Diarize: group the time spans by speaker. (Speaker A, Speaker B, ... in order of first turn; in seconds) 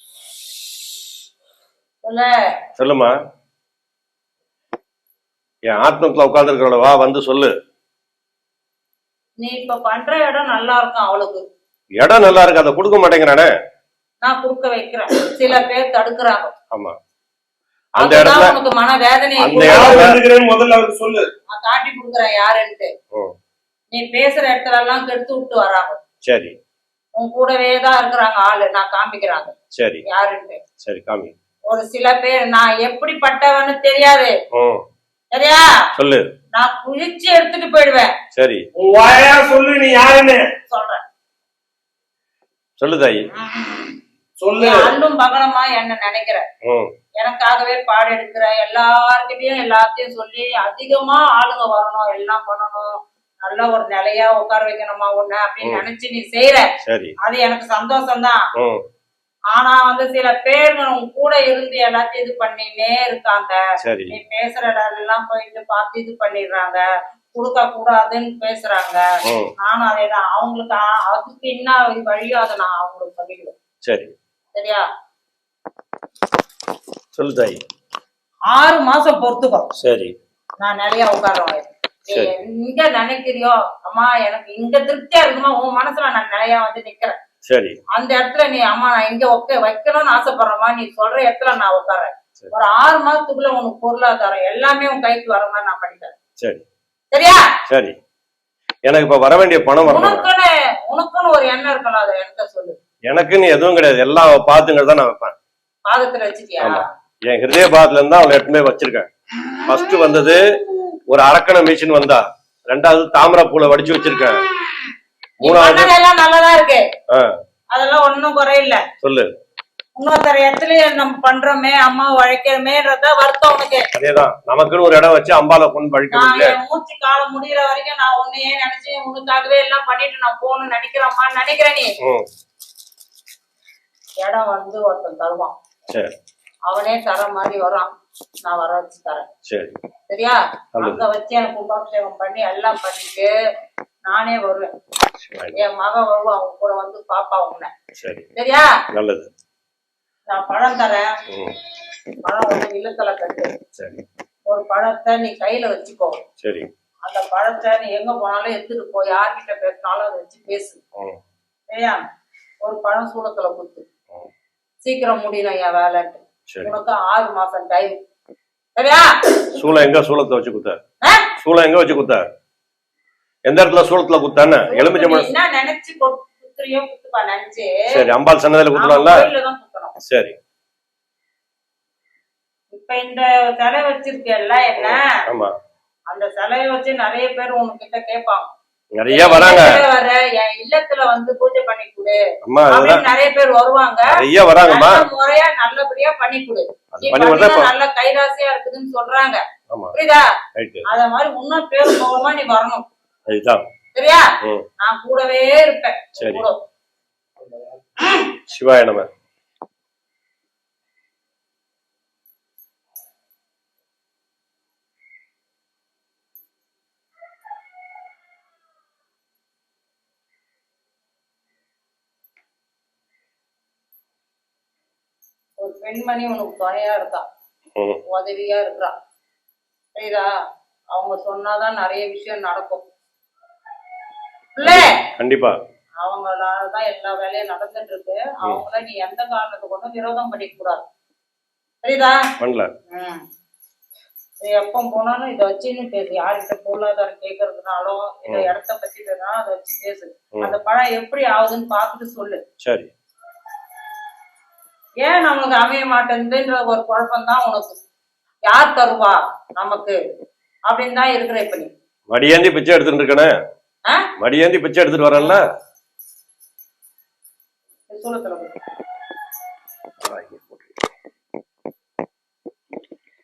Speaker A: 2.0-2.3, 9.4-11.4, 14.2-16.5, 18.0-20.1, 21.5-22.9, 23.9-26.0, 27.1-29.5, 30.1-30.6, 31.7-34.3, 35.3-35.6, 36.5-38.1, 40.7-41.0, 43.4-43.9, 44.6-46.4, 47.2-52.9, 53.4-56.7, 57.2-58.4, 59.5-69.0, 69.6-73.5, 74.5-74.8, 78.5-79.7, 80.6-87.2, 87.9-96.2, 97.1-97.4, 99.8-102.8, 105.8-106.9, 114.6-114.9, 115.4-116.8, 117.7-118.8, 120.0-123.9, 126.1-131.9, 134.2-135.5, 136.7-137.9, 138.4-139.3, 140.1-143.3, 144.1-144.7, 145.5-147.7, 148.3-148.8, 150.3-151.1, 152.2-153.5, 154.5-156.2, 157.0-160.8, 161.7-162.0, 162.6-163.8, 164.8-168.0, 168.8-169.4, 171.0-171.3, 174.7-178.0, 178.7-179.9, 182.7-185.1, 186.1-188.5, 189.1-199.4, 199.9-200.3, 200.8-202.8, 203.9-204.2, 204.8-206.6, 208.0-208.3, 225.6-227.2, 228.1-228.9, 229.9-230.3, 230.9-232.8, 234.6-235.0, 236.0-240.8, 241.8-242.2, 242.9-243.2, 244.4-252.4, 255.0-257.8, 258.5-259.9, 260.7-261.7, 267.9-268.6
Speaker B: 2.8-3.1, 5.7-7.5, 12.0-13.5, 18.0-18.6, 19.4-20.2, 26.2-26.5, 29.7-30.0, 30.8-31.3, 34.5-34.8, 36.0-36.3, 38.3-38.6, 42.8-43.3, 46.6-46.9, 56.8-57.1, 63.8-64.1, 69.2-69.5, 73.8-74.1, 77.1-77.6, 79.8-80.1, 82.1-82.3, 87.5-87.8, 97.7-97.9, 98.9-100.2, 103.1-105.3, 106.6-109.1, 109.6-110.4, 111.1-114.4, 115.4-115.9, 119.0-119.3, 123.9-126.6, 139.5-139.8, 140.7-141.0, 145.2-145.6, 148.0-148.3, 148.9-149.3, 151.3-151.6, 153.8-154.0, 156.4-156.7, 169.5-170.8, 171.4-172.2, 173.5-175.3, 177.9-179.3, 180.0-180.3, 184.8-185.5, 189.0-189.8, 192.4-193.1, 194.1-195.1, 196.9-197.7, 199.7-199.9, 200.5-200.9, 203.3-203.7, 206.2-206.4, 208.5-209.1, 234.6-235.5, 242.4-242.7, 252.6-252.9, 262.1-263.3, 264.2-265.4, 270.0-270.6
Speaker C: 19.5-21.3, 38.7-40.5, 44.4-44.9, 207.4-207.7